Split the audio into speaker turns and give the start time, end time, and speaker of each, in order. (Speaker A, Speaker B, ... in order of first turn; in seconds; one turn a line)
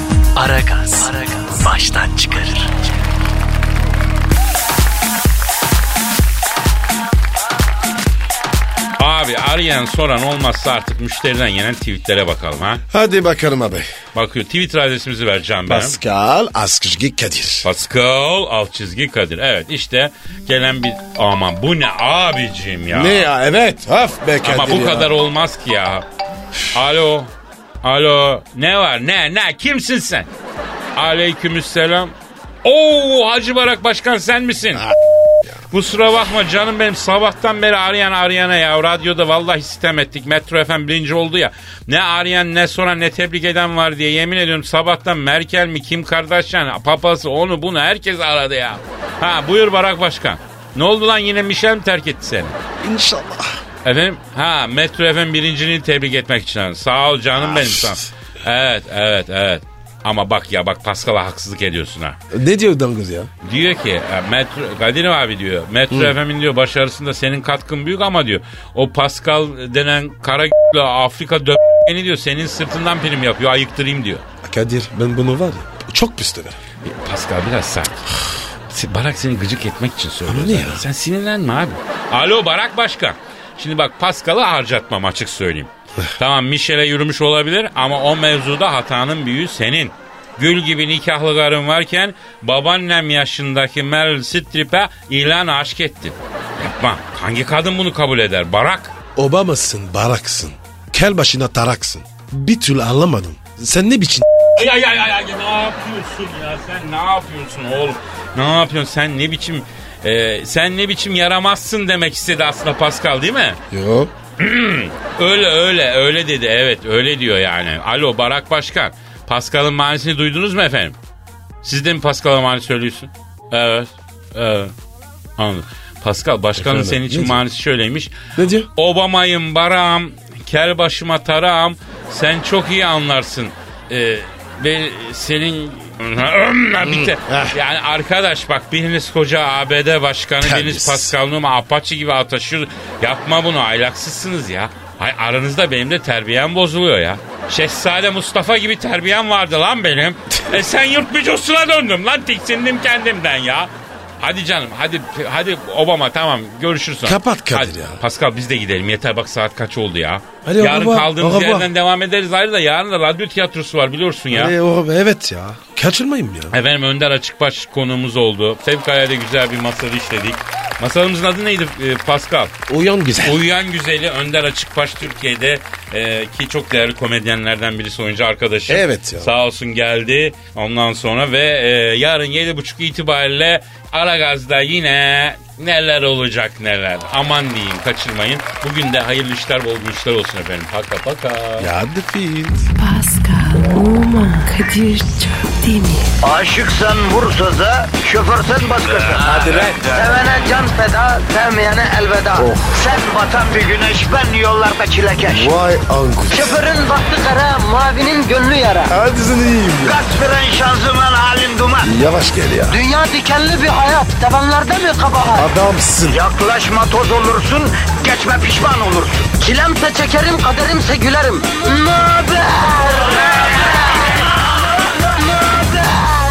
Speaker A: 0.4-2.7
Speaker B: 0.8-1.7
Speaker C: 9.0-12.8
Speaker D: 12.9-13.9
Speaker C: 14.2-16.0
Speaker D: 15.7-17.7
Speaker C: 17.6-23.3
Speaker D: 22.9-25.1
Speaker C: 24.4-26.1
Speaker C: 26.7-27.3
Speaker C: 27.8-30.3
Speaker C: 31.0-34.9
Speaker C: 35.7-52.6
Speaker D: 52.8-53.6
Speaker C: 53.8-62.2
Speaker D: 57.4-58.1
Speaker D: 62.3-63.3
Speaker C: 63.4-74.2
Speaker D: 74.4-76.6
Speaker C: 76.8-78.1
Speaker C: 78.7-99.0
Speaker D: 80.3-80.8
Speaker D: 99.2-104.3
Speaker C: 104.6-113.6
Speaker D: 113.7-114.1
Speaker C: 114.4-121.0
Speaker C: 121.6-124.7
Speaker C: 125.4-164.5
Speaker D: 126.6-127.4
Speaker D: 128.3-128.7
Speaker D: 136.8-137.6
Speaker D: 140.4-141.1
Speaker D: 157.1-158.0
Speaker D: 160.4-161.7
Speaker D: 164.3-166.6
Speaker C: 166.5-172.6
Speaker D: 172.7-173.4
Speaker C: 173.2-191.7
Speaker D: 178.7-179.3
Speaker D: 191.6-192.7
Speaker B: 192.8-196.1
Speaker E: 196.2-205.6
Speaker D: 199.2-200.2
Speaker D: 202.3-202.9
Speaker D: 205.3-206.6
Speaker E: 206.3-208.9
Speaker D: 208.9-210.0
Speaker E: 209.8-211.9
Speaker D: 211.8-212.8
Speaker E: 212.7-215.5
Speaker D: 215.3-216.2
Speaker E: 216.1-223.7
Speaker E: 225.3-226.1